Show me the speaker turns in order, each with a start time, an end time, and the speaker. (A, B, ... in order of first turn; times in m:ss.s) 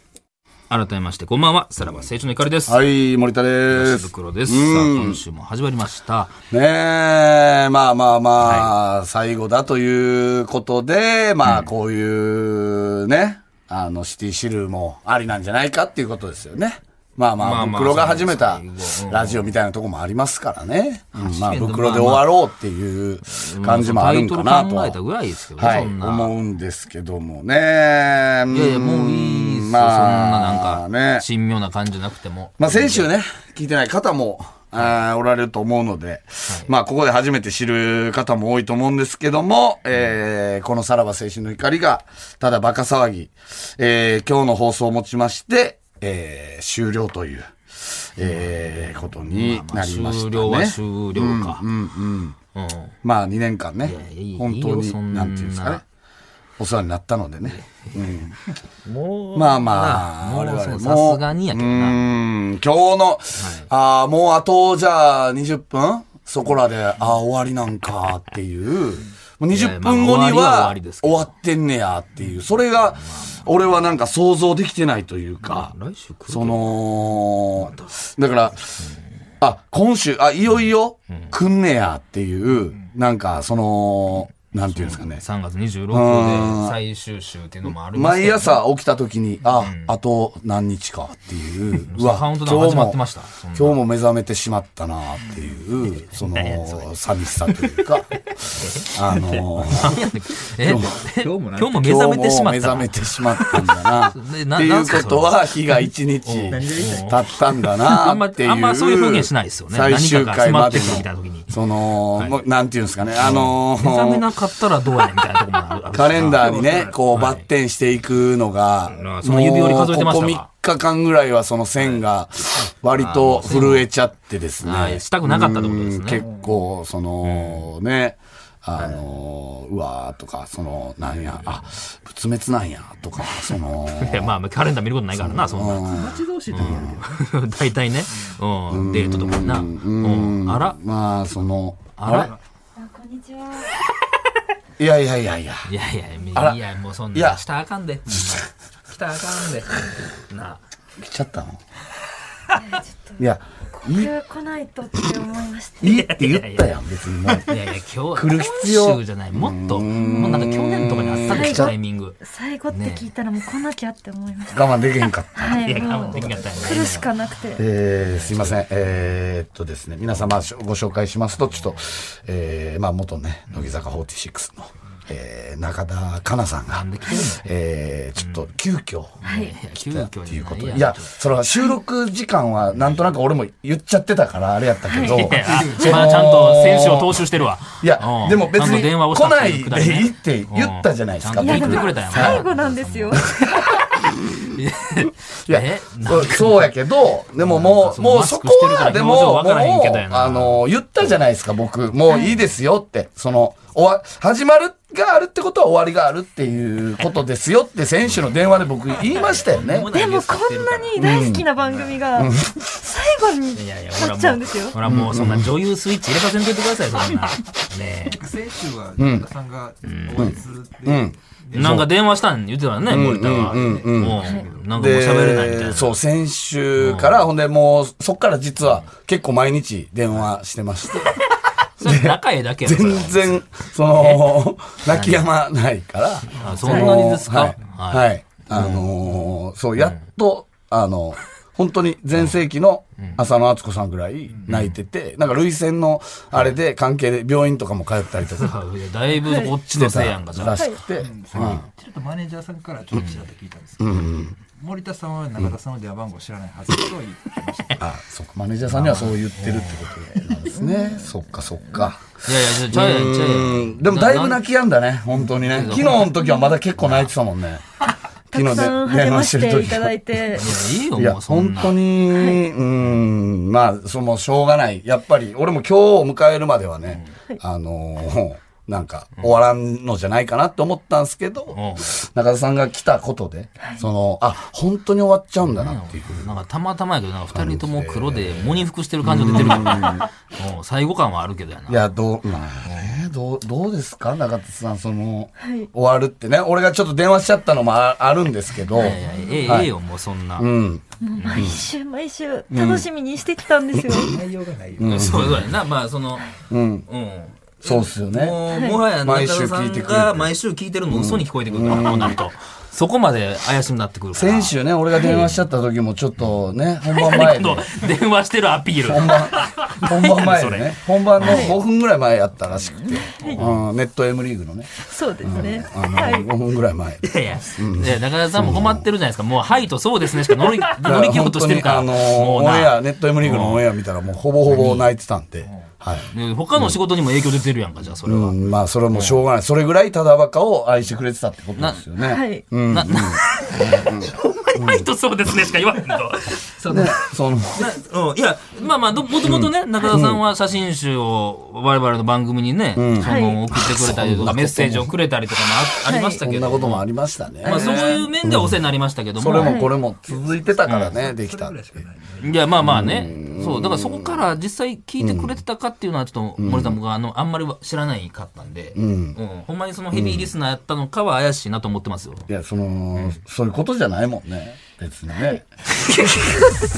0:00.7-0:02.8 A
0:02.7-0:05.2 B
0:03.7-0:06.4 A
0:06.5-0:25.0 B
0:08.4-0:08.7 A
0:17.4-0:19.5 A
0:21.1-0:22.3 A
0:23.3-0:26.3 A
0:25.6-0:31.3 B
0:28.5-0:33.1 A
0:32.6-0:52.4 B
0:48.2-0:51.6 A
0:52.6-0:53.0 A
0:53.0-0:55.8 B
0:53.8-0:55.8 A
0:56.6-0:58.4 B
0:57.4-0:58.2 A
0:58.8-1:02.0 A
0:59.4-1:15.7 B
1:03.4-1:03.7 A
1:09.5-1:11.3 A
1:13.0-1:13.5 A
1:15.4-1:16.8 A
1:16.3-1:18.9 B
1:17.6-1:17.9 A
1:19.4-1:25.2 B
1:24.6-1:28.6 A
1:25.9-1:26.8 B
1:27.9-1:33.0 B
1:29.6-1:29.9 A
1:31.9-1:33.8 A
1:33.5-1:38.2 B
1:35.3-1:35.5 C
1:36.2-1:36.9 A
1:38.4-1:45.5 A
1:38.9-1:40.1 B
1:40.6-1:40.9 B
1:40.6-1:41.9 C
1:41.7-1:54.3 B
1:46.2-1:51.6 A
1:46.5-1:47.6 C
1:53.2-1:56.6 A
1:55.9-2:14.4 B
1:56.2-1:57.0 C
1:57.1-1:57.5 A
1:58.9-2:00.5 A
2:02.9-2:03.9 A
2:04.6-2:06.2 A
2:06.2-2:06.6 C
2:07.2-2:07.7 A
2:13.9-2:16.0 A
2:15.2-2:17.0 B
2:15.8-2:17.3 C
2:16.5-2:20.8 A
2:18.7-2:22.3 B
2:22.0-2:22.3 A
2:22.1-2:22.4 C
2:22.8-2:23.7 D
2:24.8-2:25.7 B
2:25.7-2:30.6 A
2:26.3-2:26.6 B
2:27.1-2:27.4 B
2:31.0-2:31.6 B
2:32.6-2:33.2 D
2:33.2-2:34.1 B
2:33.8-2:35.9 D
2:35.8-2:37.5 B
2:35.9-2:36.7 A
2:37.4-2:43.1 A
2:38.1-2:41.7 B
2:40.0-2:40.6 D
2:41.2-2:44.8 D
2:44.5-2:46.3 B
2:45.4-2:47.6 D
2:45.6-2:47.1 A
2:46.3-2:46.8 C
2:47.6-3:07.3 B
2:48.1-2:48.6 A
2:51.4-2:51.9 A
2:56.7-2:57.4 A
2:58.2-2:58.5 A
2:59.2-3:01.2 A
2:59.2-2:59.6 D
3:02.7-3:03.1 A
3:04.9-3:05.4 D
3:05.1-3:13.3 A
3:05.4-3:06.3 C
3:07.8-3:12.5 B
3:11.4-3:13.2 D
3:13.2-3:13.8 B
3:14.6-3:16.8 A
3:15.5-3:29.9 B
3:17.4-3:21.2 A
3:22.1-3:22.3 D
3:29.0-3:31.8 A
3:29.9-3:34.8 D
3:31.0-3:31.4 B
3:32.2-3:32.6 B
3:33.6-3:38.2 A
3:34.9-3:35.5 B
3:38.1-3:41.8 C
3:39.0-3:39.3 B
3:39.8-3:40.4 A
3:40.2-3:41.9 B
3:41.5-3:46.0 A
3:42.9-3:44.2 B
3:43.3-3:44.8 C
3:44.7-3:51.2 B
3:46.8-3:47.3 A
3:51.8-3:55.3 A
3:51.8-4:08.5 B
3:56.4-3:57.0 C
3:56.4-3:58.9 A
4:04.5-4:04.8 A
4:08.3-4:10.6 A
4:09.7-4:11.6 B
4:10.6-4:10.8 D
4:11.0-4:17.8 C
4:11.3-4:11.6 A
4:12.9-4:13.2 A
4:13.8-4:14.4 B
4:17.8-4:22.0 B
4:18.7-4:19.9 A
4:20.5-4:21.1 D
4:22.2-4:24.4 A
4:22.6-4:27.6 B
4:25.3-4:27.1 A
4:26.2-4:26.5 D
4:28.3-4:30.3 B
4:28.3-4:30.5 D
4:30.4-4:31.8 A
4:31.0-4:46.4 B
4:32.1-4:32.4 D
4:41.5-4:41.9 A
4:45.4-4:51.8 A
4:47.3-4:50.1 B
4:51.7-4:59.7 B
4:52.6-4:53.0 A
4:55.4-4:55.7 D
4:58.8-5:00.5 A
4:58.9-4:59.4 D
5:00.4-5:00.8 B
5:01.0-5:04.1 D
5:01.2-5:01.5 A
5:01.4-5:01.6 B
5:02.5-5:02.9 B
5:03.8-5:04.0 B
5:04.1-5:05.2 C
5:04.8-5:05.4 B
5:04.8-5:06.3 A
5:06.5-5:06.9 B
5:06.9-5:14.6 A
5:07.6-5:08.4 B
5:08.5-5:08.8 D
5:09.0-5:10.3 B
5:10.9-5:12.2 B
5:14.1-5:17.7 B
5:15.0-5:15.3 D
5:16.9-5:21.5 A
5:18.8-5:24.7 B
5:21.2-5:21.6 D
5:22.8-5:23.4 D
5:23.2-5:23.5 A
5:24.8-5:26.3 D
5:25.2-5:28.8 B
5:27.0-5:33.6 A
5:30.8-5:36.7 B
5:34.5-5:34.9 A
5:36.1-5:38.4 A
5:38.1-5:44.9 B
5:38.9-5:39.2 A
5:41.6-5:41.8 A
5:42.1-5:42.4 D
5:42.7-5:47.0 A
5:46.7-5:47.6 B
5:47.5-5:56.9 A
5:49.2-5:50.2 B
5:52.8-5:54.9 B
5:53.0-5:53.4 D
5:55.9-5:56.2 D
5:56.2-5:58.6 B
5:57.4-5:59.6 A
5:57.5-5:57.8 D
5:59.2-6:01.8 B
5:59.4-5:59.7 D
6:00.0-6:02.5 C
6:00.7-6:01.0 A
6:02.2-6:12.3 A
6:02.6-6:04.2 B
6:05.0-6:05.4 B
6:06.4-6:06.8 B
6:08.8-6:09.2 B
6:09.9-6:10.3 B
6:12.3-6:15.4 B
6:15.8-6:16.4 A